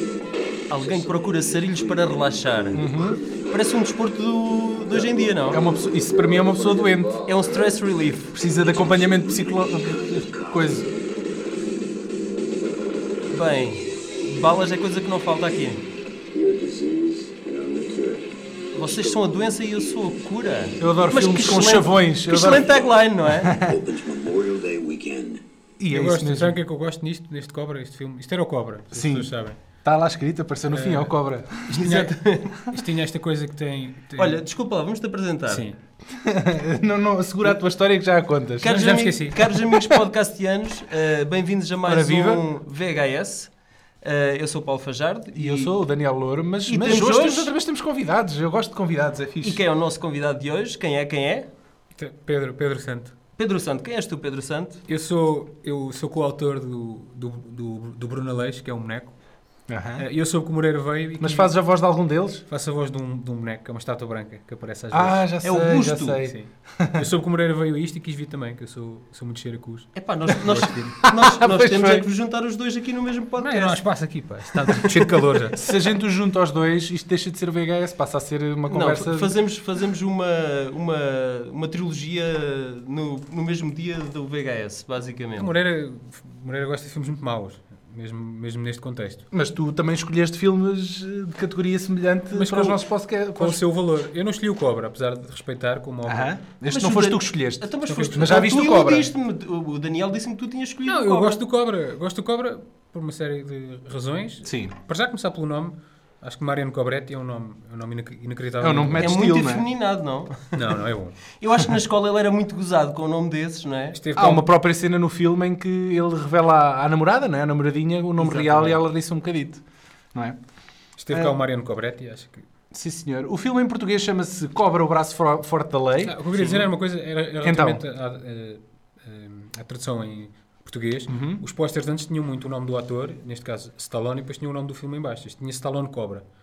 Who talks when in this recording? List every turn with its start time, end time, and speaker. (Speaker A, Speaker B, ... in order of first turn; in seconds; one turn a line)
Speaker A: 0.7-2.8
Speaker B: 2.7-3.2
Speaker A: 3.4-5.6
Speaker B: 5.5-7.2
Speaker A: 7.2-8.3
Speaker B: 8.3-10.9
Speaker A: 13.3-15.8
Speaker C: 16.4-18.2
Speaker A: 18.7-23.5
Speaker B: 20.8-22.7
Speaker B: 23.4-23.9
Speaker C: 23.9-25.4
Speaker B: 25.8-26.6
Speaker D: 25.9-29.6
Speaker B: 28.9-32.1
Speaker D: 30.7-31.2
Speaker A: 31.7-32.6
Speaker D: 31.8-34.4
Speaker A: 34.2-35.6
Speaker D: 35.5-35.8
Speaker B: 36.1-38.8
Speaker A: 38.6-43.5
Speaker D: 38.7-39.6
Speaker B: 41.8-42.5
Speaker A: 44.0-45.7
Speaker B: 45.3-49.6
Speaker A: 46.6-47.5
Speaker A: 49.4-51.5
Speaker D: 52.0-53.1
Speaker A: 53.4-54.8
Speaker D: 54.9-59.1
Speaker B: 59.7-60.0
Speaker D: 60.0-61.5
Speaker B: 61.2-62.4
Speaker D: 62.5-65.2
Speaker B: 64.9-67.1
Speaker A: 65.4-66.2
Speaker D: 66.2-70.9
Speaker A: 69.9-73.8
Speaker B: 70.7-72.1
Speaker D: 73.4-75.6
Speaker B: 75.5-79.3
Speaker A: 78.7-85.5
Speaker D: 85.4-89.2
Speaker B: 89.3-93.6
Speaker D: 92.3-96.3
Speaker B: 96.0-99.1
Speaker A: 96.7-101.4
Speaker D: 97.8-98.4
Speaker D: 100.8-109.2
Speaker B: 104.4-104.7
Speaker B: 108.6-109.7
Speaker A: 109.0-110.5
Speaker D: 110.5-111.2
Speaker A: 111.4-114.0
Speaker D: 113.9-114.5
Speaker B: 114.2-119.6
Speaker D: 118.2-118.8
Speaker D: 121.0-122.4
Speaker B: 121.1-121.4
Speaker B: 122.7-126.7
Speaker D: 126.0-136.2
Speaker B: 127.4-127.8
Speaker B: 131.1-131.4